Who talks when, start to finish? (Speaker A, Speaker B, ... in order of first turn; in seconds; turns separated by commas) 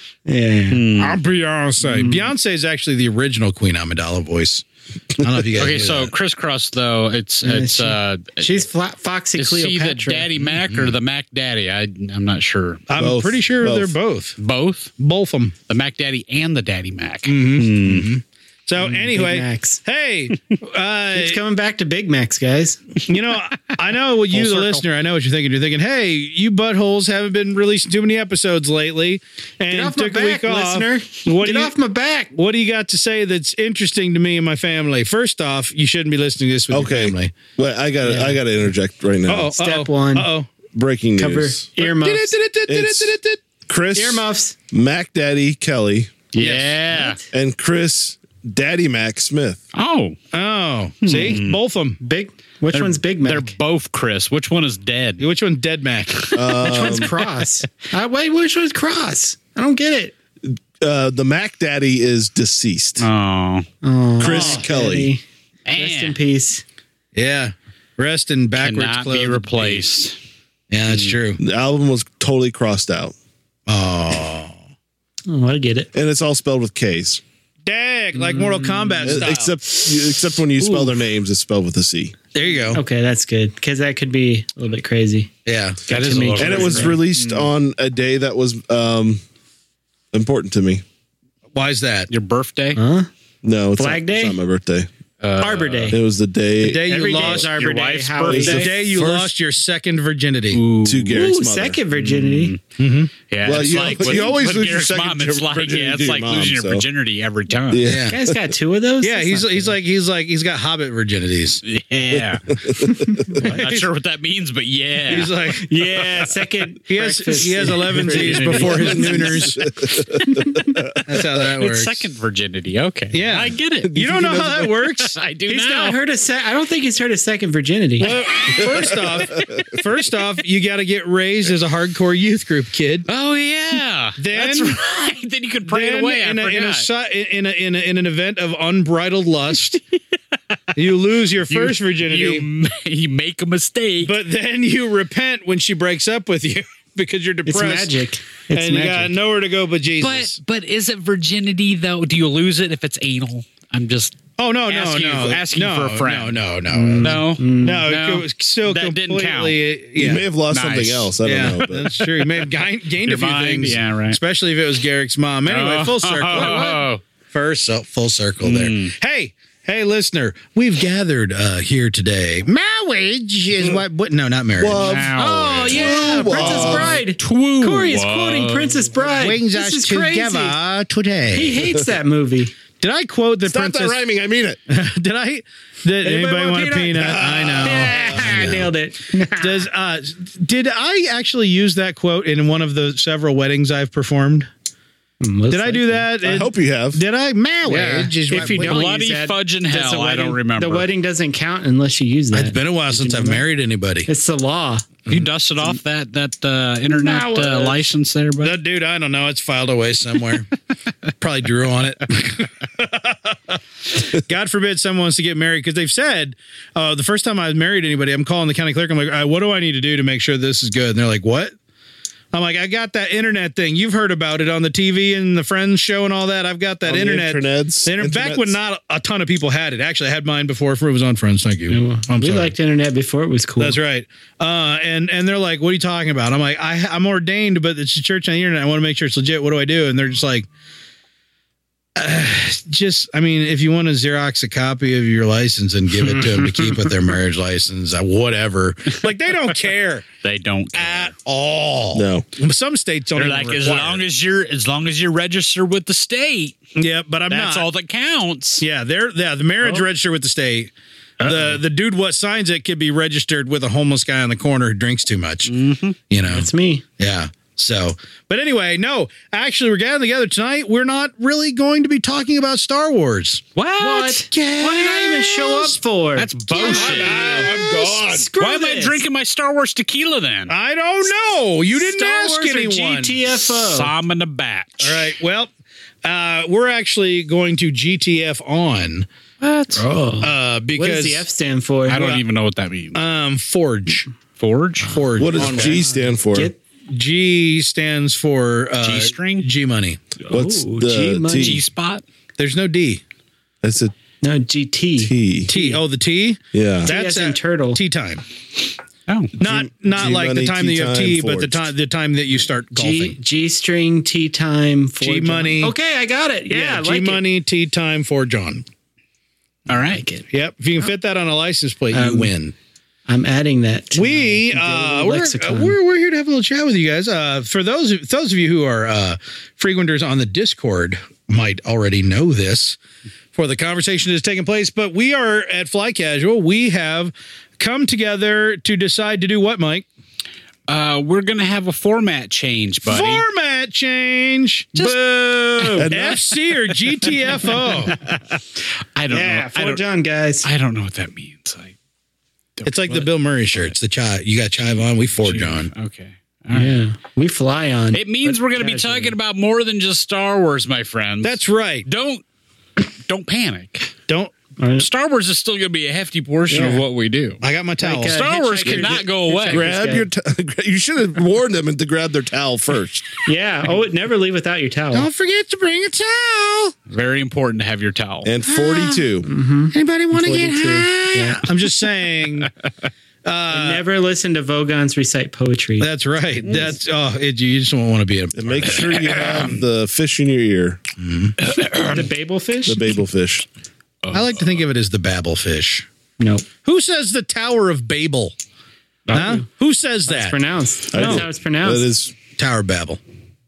Speaker A: 0.2-0.9, Speaker B: 0.7-1.2, Speaker C: 1.0-6.1, Speaker A: 1.8-2.3, Speaker B: 5.5-8.7, Speaker A: 7.4-10.3, Speaker B: 9.3-12.8, Speaker C: 10.5-10.9, Speaker C: 12.9-14.4, Speaker D: 13.0-13.9, Speaker B: 14.4-14.9, Speaker C: 15.0-15.5, Speaker B: 15.7-18.1, Speaker C: 17.3-21.4, Speaker A: 18.8-19.8, Speaker A: 21.1-22.8, Speaker C: 23.0-31.7, Speaker A: 29.7-32.3, Speaker C: 32.3-37.3, Speaker D: 36.7-39.5, Speaker A: 38.0-38.4, Speaker C: 39.3-40.5, Speaker A: 39.5-40.3, Speaker D: 40.7-41.6, Speaker A: 41.2-42.3, Speaker C: 41.8-43.4, Speaker D: 42.7-46.1, Speaker A: 43.9-44.5, Speaker B: 46.3-47.2, Speaker A: 46.4-47.2, Speaker D: 47.3-49.6, Speaker B: 49.7-50.2, Speaker C: 50.3-52.0, Speaker B: 51.0-51.6, Speaker A: 52.0-53.5, Speaker B: 52.7-55.2, Speaker C: 55.2-56.4, Speaker D: 56.3-57.1, Speaker A: 56.5-60.1, Speaker D: 60.4-63.1, Speaker B: 63.0-63.7, Speaker A: 63.8-66.6, Speaker D: 64.2-65.1, Speaker C: 64.3-64.6, Speaker B: 65.7-66.2, Speaker C: 67.1-69.8, Speaker B: 68.6-70.2, Speaker C: 70.7-71.4, Speaker D: 71.4-73.1, Speaker C: 73.7-74.5, Speaker A: 75.3-75.9, Speaker D: 75.9-77.2, Speaker C: 77.7-79.6, Speaker A: 78.1-79.2, Speaker D: 79.0-82.1, Speaker A: 80.6-80.9, Speaker C: 82.3-82.8, Speaker A: 82.7-85.3, Speaker C: 85.4-85.8, Speaker A: 85.9-87.0, Speaker B: 85.9-87.4, Speaker D: 86.4-89.2, Speaker D: 90.1-90.8, Speaker C: 91.5-92.1, Speaker B: 92.1-92.8, Speaker A: 92.8-93.1, Speaker D: 93.4-94.9, Speaker A: 93.8-94.4, Speaker B: 95.2-96.0, Speaker A: 95.4-96.0, Speaker D: 95.9-96.9, Speaker C: 96.6-97.5, Speaker A: 96.8-98.7, Speaker B: 97.1-98.7, Speaker D: 98.2-99.3, Speaker C: 98.4-100.6, Speaker B: 100.5-101.2, Speaker D: 100.8-101.8, Speaker A: 101.1-102.5, Speaker B: 101.9-102.6, Speaker C: 102.8-103.1, Speaker B: 103.3-107.8, Speaker D: 103.4-106.8, Speaker D: 107.7-108.4, Speaker C: 107.8-108.2, Speaker A: 108.1-109.7, Speaker C: 109.0-111.6, Speaker B: 111.6-112.5, Speaker D: 112.1-113.4, Speaker A: 113.1-113.7, Speaker B: 113.3-115.3, Speaker C: 113.4-113.8, Speaker C: 115.1-115.7, Speaker A: 115.2-119.5, Speaker C: 116.9-119.7, Speaker D: 118.1-121.0, Speaker A: 120.2-120.8, Speaker C: 121.0-122.0, Speaker B: 121.2-124.0, Speaker C: 123.1-125.2, Speaker D: 123.8-124.7, Speaker B: 125.0-126.0, Speaker A: 125.5-128.1, Speaker C: 128.0-133.1, Speaker D: 128.5-129.7, Speaker B: 133.1-136.9, Speaker C: 134.2-134.8, Speaker C: 135.6-139.8, Speaker C: 140.7-142.4, Speaker B: 141.5-144.1, Speaker C: 144.0-148.0, Speaker A: 147.4-149.1, Speaker C: 148.5-150.4, Speaker B: 150.0-156.4, Speaker C: 154.4-160.2, Speaker A: 156.7-157.8, Speaker B: 157.0-159.6, Speaker D: 160.0-161.9, Speaker B: 160.5-162.5, Speaker C: 161.2-174.9, Speaker B: 163.0-164.2, Speaker B: 165.5-167.0, Speaker B: 168.4-168.9, Speaker D: 174.6-177.0, Speaker B: 174.8-178.9, Speaker A: 175.1-180.6, Speaker C: 179.0-181.6, Speaker A: 181.3-182.5, Speaker C: 182.8-184.0, Speaker D: 183.4-184.6, Speaker C: 184.7-188.6, Speaker A: 186.0-189.7, Speaker D: 186.9-188.7, Speaker C: 189.4-194.5, Speaker A: 195.2-196.4, Speaker C: 195.5-198.8, Speaker D: 196.2-197.0, Speaker A: 197.6-203.4, Speaker B: 198.4-200.9, Speaker C: 202.3-204.1, Speaker A: 204.1-205.0, Speaker B: 205.1-208.6, Speaker A: 206.9-207.8, Speaker C: 208.4-210.5, Speaker C: 211.2-221.5, Speaker C: 222.3-232.5, Speaker D: 226.8-228.6, Speaker A: 231.7-233.8, Speaker C: 233.6-240.5, Speaker C: 241.9-250.1, Speaker B: 250.2-251.1, Speaker C: 250.7-254.0, Speaker D: 251.9-252.2, Speaker B: 253.2-256.6, Speaker C: 256.7-257.6, Speaker B: 257.3-258.6, Speaker C: 258.6-265.5, Speaker B: 265.5-266.0, Speaker C: 266.1-273.4, Speaker A: 266.2-266.8, Speaker B: 273.6-274.2, Speaker A: 273.8-279.0, Speaker C: 274.3-275.7, Speaker B: 276.1-277.3, Speaker D: 276.6-278.3, Speaker C: 276.9-277.5, Speaker B: 278.4-280.5, Speaker C: 280.5-283.2, Speaker A: 281.7-283.9, Speaker B: 283.3-285.1, Speaker C: 284.8-285.5, Speaker C: 286.0-289.1, Speaker B: 289.4-289.8, Speaker A: 289.7-292.0, Speaker C: 290.2-291.3, Speaker B: 291.9-293.0, Speaker C: 291.9-292.2, Speaker C: 292.9-294.1, Speaker B: 294.4-295.5, Speaker C: 294.8-295.8, Speaker D: 295.2-296.5, Speaker A: 295.4-296.6, Speaker C: 296.9-300.0, Speaker B: 298.8-299.5, Speaker A: 300.2-301.6, Speaker D: 300.3-301.6, Speaker B: 301.3-302.0, Speaker C: 302.4-303.0, Speaker D: 303.6-303.9, Speaker A: 304.2-305.8, Speaker D: 305.0-305.5, Speaker C: 305.5-308.2, Speaker D: 306.5-306.9, Speaker A: 306.8-307.8, Speaker B: 309.1-309.3, Speaker D: 309.4-311.7, Speaker C: 309.4-313.2, Speaker A: 312.7-317.2, Speaker C: 315.0-315.7, Speaker C: 316.5-318.6, Speaker B: 319.7-320.1, Speaker A: 319.7-320.2, Speaker C: 320.3-322.5, Speaker A: 321.9-322.3, Speaker A: 323.1-325.8, Speaker C: 323.9-332.8, Speaker C: 333.3-339.8, Speaker B: 340.7-343.2, Speaker C: 342.8-345.0, Speaker A: 344.8-345.9, Speaker B: 345.6-345.8, Speaker D: 345.8-346.2, Speaker C: 345.8-347.9, Speaker B: 347.9-349.8, Speaker A: 349.1-350.5, Speaker B: 350.4-351.7, Speaker B: 352.6-353.7, Speaker C: 352.6-355.7, Speaker B: 355.2-356.8, Speaker A: 356.5-359.1, Speaker B: 357.9-362.2, Speaker C: 361.2-361.9, Speaker B: 362.8-363.9, Speaker C: 364.1-364.3, Speaker A: 364.6-364.9, Speaker B: 364.8-367.4, Speaker A: 366.5-366.8, Speaker C: 367.4-368.9, Speaker A: 367.8-370.1, Speaker B: 368.0-369.7, Speaker D: 369.5-373.2, Speaker A: 373.2-375.1, Speaker C: 374.9-376.7, Speaker B: 376.9-378.3, Speaker D: 378.2-379.3, Speaker C: 378.5-379.0, Speaker A: 379.2-381.4, Speaker C: 379.7-382.5, Speaker C: 383.2-383.8, Speaker A: 383.5-385.9, Speaker C: 385.8-388.9, Speaker D: 388.3-390.8, Speaker B: 388.9-389.5, Speaker C: 391.0-391.4, Speaker B: 391.4-392.1, Speaker A: 391.8-392.9, Speaker D: 392.6-393.4, Speaker B: 394.0-394.4, Speaker C: 394.1-395.9, Speaker A: 396.2-396.4, Speaker C: 396.6-398.3, Speaker A: 399.1-399.4, Speaker C: 399.1-400.4, Speaker A: 400.1-401.9, Speaker D: 400.9-402.1, Speaker C: 401.0-401.2, Speaker C: 402.4-403.0